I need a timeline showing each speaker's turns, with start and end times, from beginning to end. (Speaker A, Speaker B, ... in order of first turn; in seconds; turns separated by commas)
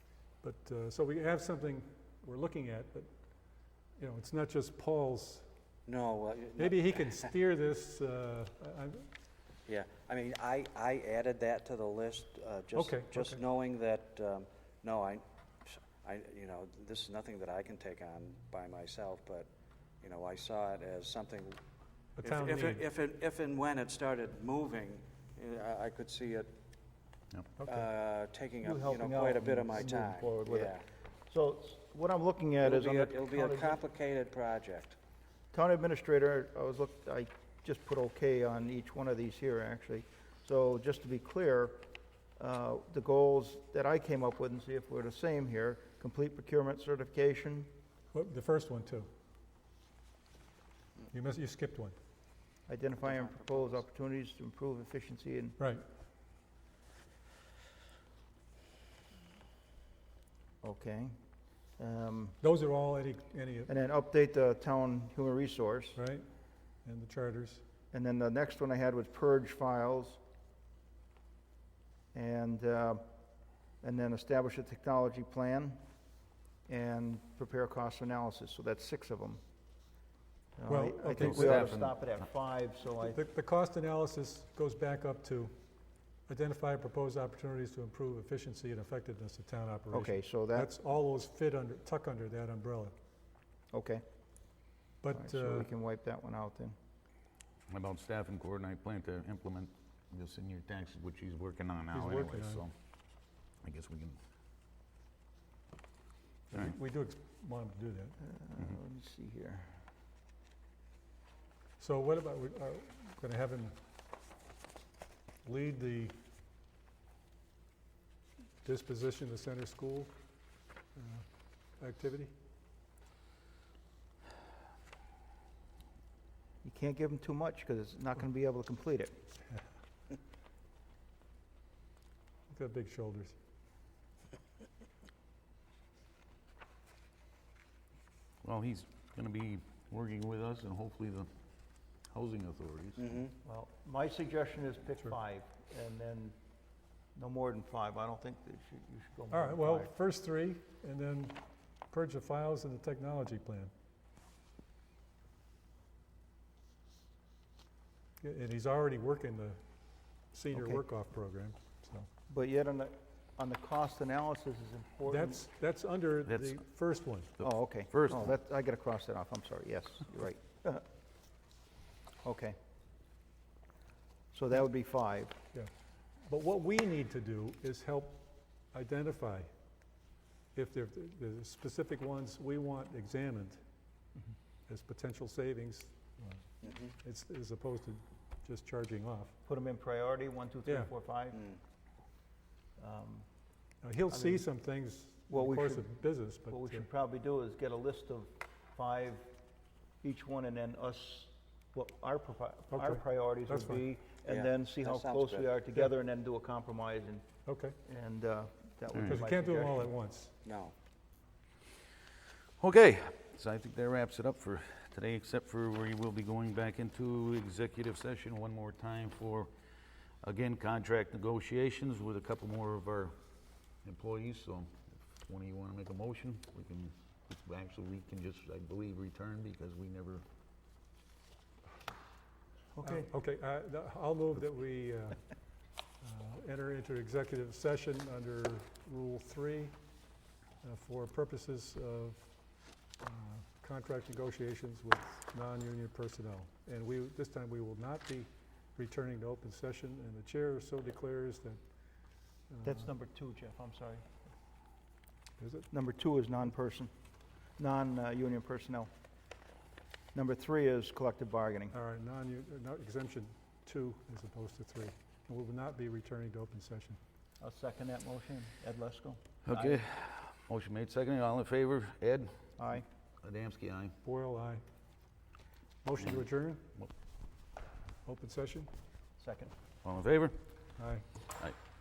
Speaker A: 0.4-3.1, Speaker A: 4.0-5.5, Speaker B: 5.9-7.3, Speaker A: 6.6-9.1, Speaker B: 9.7-19.5, Speaker A: 12.8-13.4, Speaker B: 20.0-21.6, Speaker A: 22.2-22.8, Speaker B: 22.2-26.5, Speaker B: 27.6-30.8, Speaker C: 28.6-30.8, Speaker C: 31.3-33.8, Speaker B: 32.6-35.0, Speaker C: 35.5-47.7, Speaker A: 48.1-49.1, Speaker A: 51.1-52.0, Speaker C: 52.7-55.6, Speaker B: 53.1-53.7, Speaker C: 60.6-61.1, Speaker C: 61.8-62.4, Speaker A: 62.4-63.7, Speaker C: 63.7-66.0, Speaker A: 66.0-66.2, Speaker A: 66.8-67.6, Speaker C: 67.9-70.2, Speaker C: 72.1-73.0, Speaker C: 73.8-75.8, Speaker C: 76.7-79.4, Speaker C: 80.6-83.2, Speaker A: 80.7-81.7, Speaker D: 81.2-81.9, Speaker A: 83.1-85.5, Speaker A: 86.3-92.9, Speaker C: 89.9-90.7, Speaker C: 93.7-94.0, Speaker A: 95.0-95.7, Speaker C: 95.1-96.8, Speaker D: 97.7-102.7, Speaker A: 101.9-102.6, Speaker D: 103.6-104.2, Speaker A: 106.5-108.2, Speaker C: 108.2-109.8, Speaker A: 111.8-113.8, Speaker A: 115.4-116.2, Speaker A: 118.6-120.1, Speaker A: 121.0-121.3, Speaker A: 121.8-122.3, Speaker C: 126.6-129.2, Speaker A: 132.5-133.4, Speaker D: 138.4-141.3, Speaker D: 142.1-143.1, Speaker B: 143.0-143.3, Speaker C: 143.4-146.4, Speaker C: 147.2-149.9, Speaker A: 149.3-153.7, Speaker A: 158.2-159.6, Speaker A: 160.3-162.1, Speaker C: 160.5-160.8, Speaker C: 162.3-165.4, Speaker A: 165.1-167.3, Speaker D: 166.3-166.6, Speaker D: 167.4-168.3, Speaker C: 167.4-170.8, Speaker C: 172.2-172.6, Speaker C: 174.3-175.4, Speaker A: 176.2-179.5, Speaker A: 180.6-183.6, Speaker A: 184.7-189.3, Speaker B: 186.6-186.9, Speaker C: 189.5-191.5, Speaker A: 190.7-190.9, Speaker C: 192.8-193.3, Speaker A: 193.8-196.9, Speaker C: 194.1-194.4, Speaker C: 195.3-199.3, Speaker C: 200.0-207.2, Speaker A: 202.7-203.9, Speaker B: 204.3-205.5, Speaker A: 207.5-207.8, Speaker C: 207.8-209.9, Speaker A: 208.9-210.3, Speaker D: 208.9-209.2, Speaker B: 210.4-210.7, Speaker D: 212.6-219.5, Speaker D: 220.2-223.2, Speaker D: 223.8-230.2, Speaker C: 232.8-233.1, Speaker A: 232.8-235.2, Speaker A: 236.0-239.8, Speaker A: 240.6-242.3, Speaker A: 243.0-251.6, Speaker A: 252.5-252.9, Speaker C: 252.6-254.2, Speaker A: 255.4-255.7, Speaker C: 255.7-256.9, Speaker C: 257.6-258.9, Speaker C: 260.1-261.8, Speaker A: 261.7-267.0, Speaker C: 267.4-269.8, Speaker D: 269.5-272.4, Speaker C: 272.6-272.9, Speaker D: 273.2-273.9, Speaker A: 274.0-274.6, Speaker A: 275.8-276.7, Speaker A: 278.1-278.7, Speaker C: 279.2-279.5, Speaker D: 279.8-280.4, Speaker A: 280.8-281.1